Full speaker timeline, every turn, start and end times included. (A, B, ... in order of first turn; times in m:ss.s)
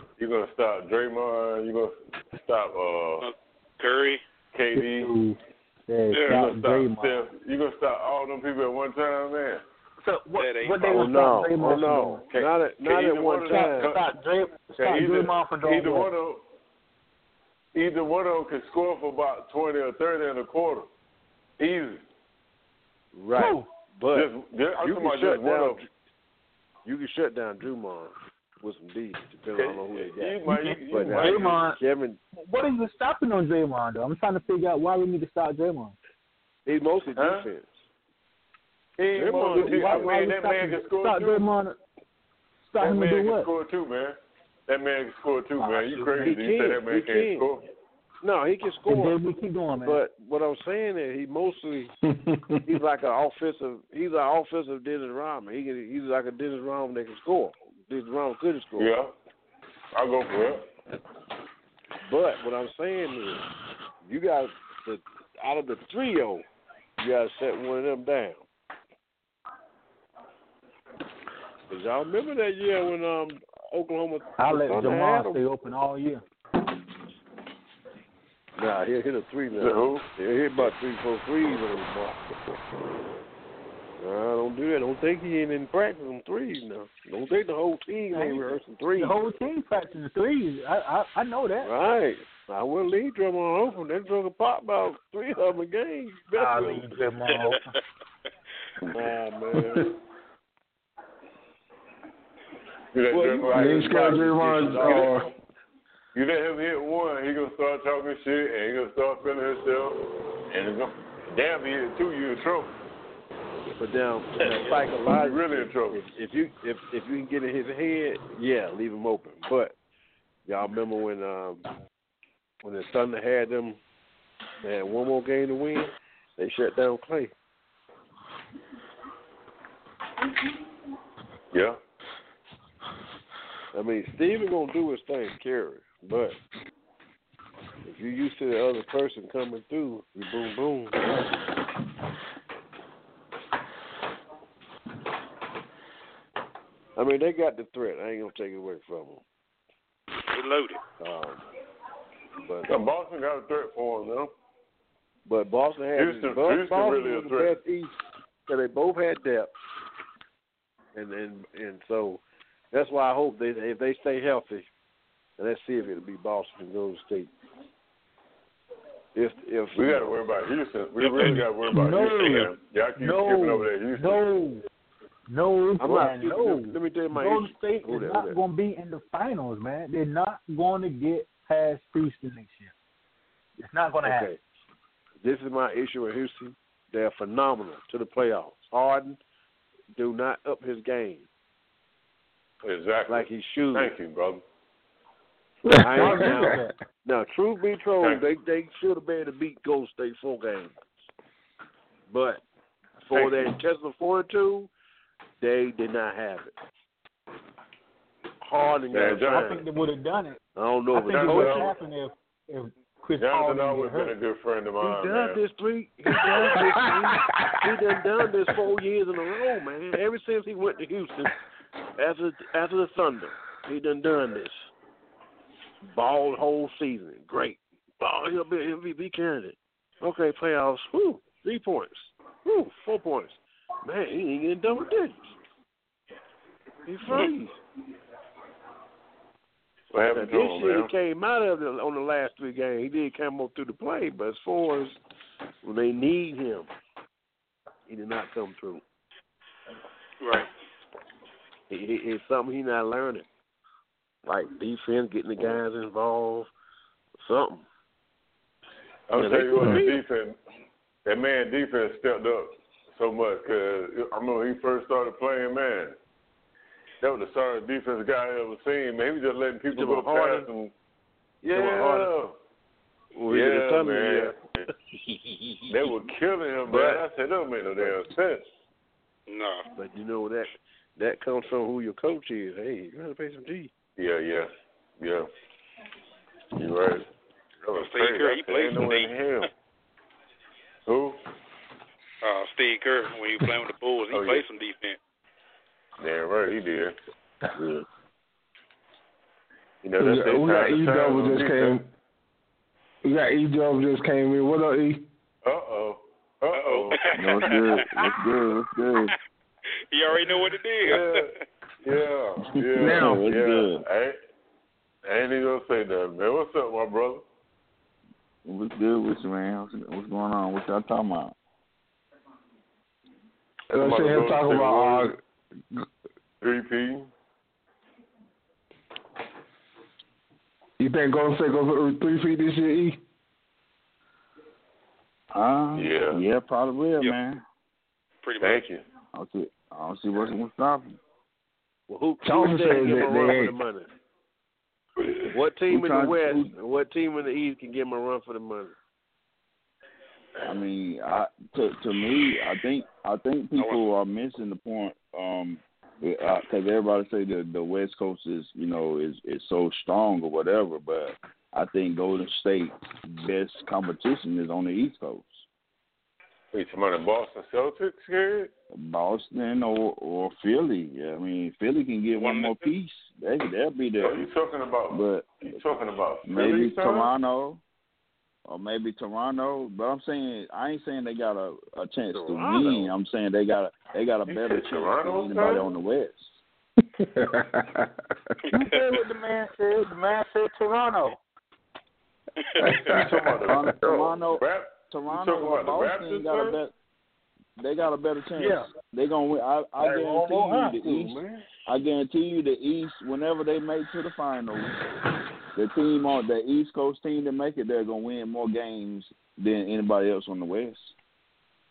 0:00.2-0:03.3 A
0:03.2-0:04.2 B
0:04.5-0:05.1 A
0:04.8-0:05.4 C
0:05.9-0:07.2 C
0:06.1-0:06.4 B
0:06.2-0:09.6 A
0:10.0-0:12.2 C
0:10.4-0:11.0 B
0:10.9-0:13.9 D
0:12.3-0:14.1 A
0:13.5-0:16.1 C
0:14.7-0:16.4 A
0:17.7-0:20.9 A
0:21.6-0:22.0 A
0:23.1-0:24.3 D
0:23.3-0:23.7 C
0:24.1-0:25.8 A
0:24.8-0:25.8 D
0:26.8-0:32.2 D
0:29.5-0:31.7 A
0:30.4-0:31.8 C
0:32.4-0:36.0 C
0:36.6-0:37.7 D
0:37.2-0:37.5 A
0:39.0-0:41.5 A
0:39.2-0:40.1 D
0:39.4-0:41.8 C
0:42.7-0:43.5 C
0:42.8-0:47.6 A
0:45.6-0:46.3 C
0:46.2-0:47.5 D
0:48.2-0:49.2 D
0:48.9-0:50.0 C
0:49.8-0:51.9 D
0:52.1-0:52.7 E
0:52.6-0:58.9 D
0:58.8-0:59.1 A
0:59.9-1:00.7 A
1:02.0-1:03.4 D
1:04.0-1:06.4 D
1:07.0-1:08.4 D
1:11.7-1:15.4 D
1:14.4-1:16.2 C
1:18.6-1:22.4 D
1:19.6-1:20.1 A
1:24.0-1:29.2 D
1:28.1-1:31.7 C
1:31.6-1:37.0 D
1:36.3-1:37.7 C
1:38.9-1:39.9 D
1:39.5-1:39.9 E
1:42.9-1:45.2 A
1:43.1-1:45.2 D
1:43.5-1:45.3 E
1:46.1-1:50.0 A
1:50.5-1:52.7 A
1:53.8-1:59.7 D
1:54.4-1:56.1 A
2:00.5-2:01.6 D
2:02.6-2:03.8 D
2:04.6-2:07.3 D
2:11.5-2:11.8 A
2:13.7-2:16.4 D
2:17.8-2:21.0 D
2:27.0-2:29.2 D
2:30.3-2:30.8 B
2:31.0-2:31.4 D
2:32.4-2:32.7 D
2:32.7-2:34.3 A
2:35.2-2:37.9 D
2:35.9-2:37.6 A
2:38.5-2:39.5 D
2:40.9-2:44.7 D
2:45.4-2:47.3 D
2:49.1-2:50.2 D
2:49.7-2:54.2 A
2:51.0-2:51.3 B
2:51.7-2:54.6 C
2:55.3-3:02.7 C
2:55.8-2:58.4 D
3:03.6-3:04.3 C
3:04.0-3:04.4 D
3:05.2-3:09.2 D
3:09.9-3:11.3 D
3:12.6-3:14.4 A
3:13.1-3:13.9 D
3:15.7-3:16.7 E
3:15.7-3:20.8 D
3:15.9-3:16.7 C
3:22.1-3:22.4 D
3:23.1-3:24.7 D
3:23.1-3:23.5 A
3:25.4-3:26.5 D
3:28.4-3:29.6 D
3:28.9-3:29.6 A
3:29.2-3:30.4 C
3:30.5-3:31.7 D
3:30.9-3:34.1 C
3:31.0-3:31.8 A
3:33.2-3:35.4 A
3:34.8-3:41.3 D
3:36.1-3:37.8 E
3:42.0-3:44.6 D
3:45.9-3:55.2 D
3:56.8-3:57.5 D
3:59.9-4:00.9 A
4:00.1-4:05.0 D
4:05.6-4:06.7 D
4:07.9-4:08.8 D
4:10.2-4:10.5 B
4:11.7-4:13.2 D
4:14.2-4:16.5 D
4:17.2-4:17.6 D
4:19.1-4:20.4 A
4:19.1-4:20.0 D
4:21.0-4:26.0 A
4:27.0-4:30.7 A
4:29.7-4:30.4 D
4:31.4-4:32.3 A
4:31.5-4:32.1 D
4:33.1-4:34.3 D
4:33.3-4:34.4 A
4:35.7-4:38.4 A
4:36.7-4:37.0 D
4:39.3-4:39.6 B
4:39.8-4:43.7 D
4:44.0-4:45.3 A
4:46.6-4:47.0 A
4:47.6-4:49.5 A
4:47.7-4:49.1 B
4:50.9-4:51.2 A
4:52.2-4:55.0 B
4:54.1-4:54.4 A
4:56.0-4:57.0 A
4:59.8-5:01.8 A
5:00.0-5:01.9 E
5:03.0-5:05.0 E
5:05.4-5:07.6 A
5:06.5-5:08.2 B
5:07.2-5:09.1 F
5:09.9-5:11.3 B
5:10.2-5:14.2 A
5:12.5-5:13.8 F
5:12.8-5:13.2 E
5:15.0-5:17.2 A
5:18.4-5:21.3 F
5:23.7-5:25.1 A
5:23.7-5:25.2 E
5:26.4-5:27.1 A
5:30.8-5:33.0 E
5:35.3-5:37.4 F
5:35.7-5:36.2 A
5:38.2-5:38.7 B
5:38.4-5:38.8 A
5:39.1-5:41.0 F
5:41.9-5:43.9 D
5:42.2-5:43.5 E
5:45.0-5:45.3 A
5:45.3-5:48.7 D
5:45.7-5:46.5 F
5:50.4-6:05.4 F
5:53.6-5:53.8 B
6:06.5-6:08.5 A
6:08.7-6:14.2 F
6:12.2-6:12.7 B
6:14.0-6:17.1 A
6:14.9-6:15.6 F
6:16.2-6:17.6 F
6:18.4-6:26.4 F
6:22.1-6:22.9 D
6:24.3-6:25.7 A
6:27.0-6:27.9 E
6:28.5-6:31.2 C
6:28.6-6:28.9 B
6:32.4-6:33.0 B
6:32.6-6:34.0 E
6:32.9-6:36.6 A
6:33.5-6:36.7 F
6:37.6-6:44.8 F
6:38.4-6:38.6 C
6:39.8-6:41.4 D
6:40.4-6:40.7 C
6:45.5-6:50.9 F